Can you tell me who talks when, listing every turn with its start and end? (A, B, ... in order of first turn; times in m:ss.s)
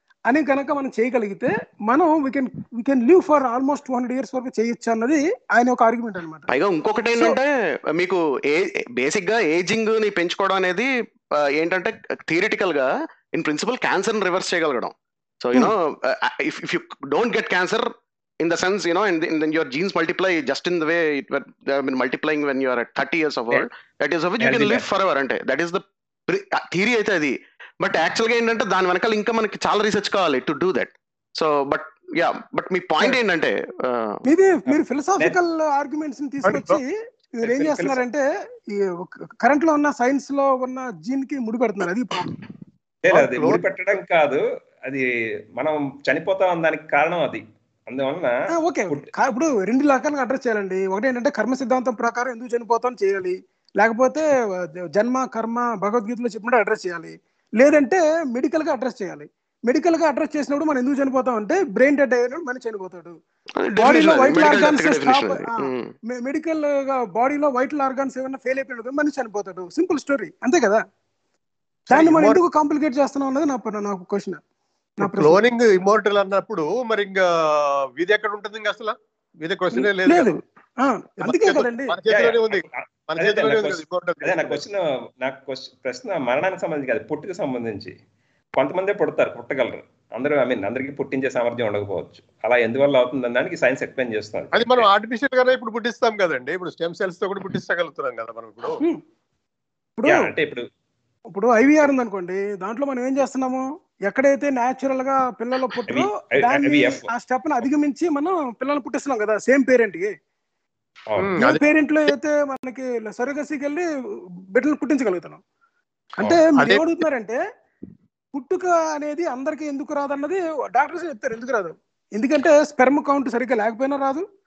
0:00.3-0:06.5 A
0:06.5-0:17.9 B
0:18.4-0:34.2 B
0:24.4-0:24.8 C
0:34.3-0:42.3 A
0:34.7-0:35.4 C
0:36.5-0:36.8 D
0:37.4-0:38.0 C
0:43.0-0:48.4 C
0:43.1-0:43.6 D
0:48.5-0:54.3 A
0:55.0-1:03.2 A
1:03.6-1:05.9 B
1:03.8-1:10.8 A
1:11.9-1:12.4 D
1:11.9-1:14.4 A
1:15.0-1:15.4 A
1:15.0-1:20.3 D
1:19.7-1:22.0 A
1:21.2-1:24.6 D
1:22.1-1:28.0 C
1:28.6-1:34.9 C
1:34.5-1:38.8 D
1:40.0-1:40.3 A
1:40.1-1:40.7 C
1:41.3-1:50.2 A
1:45.9-1:47.0 C
1:51.1-1:51.4 C
1:51.2-1:51.6 D
1:51.4-1:53.9 A
1:54.5-1:55.4 A
1:56.2-1:57.4 A
1:56.6-1:56.8 D
1:58.3-2:04.3 A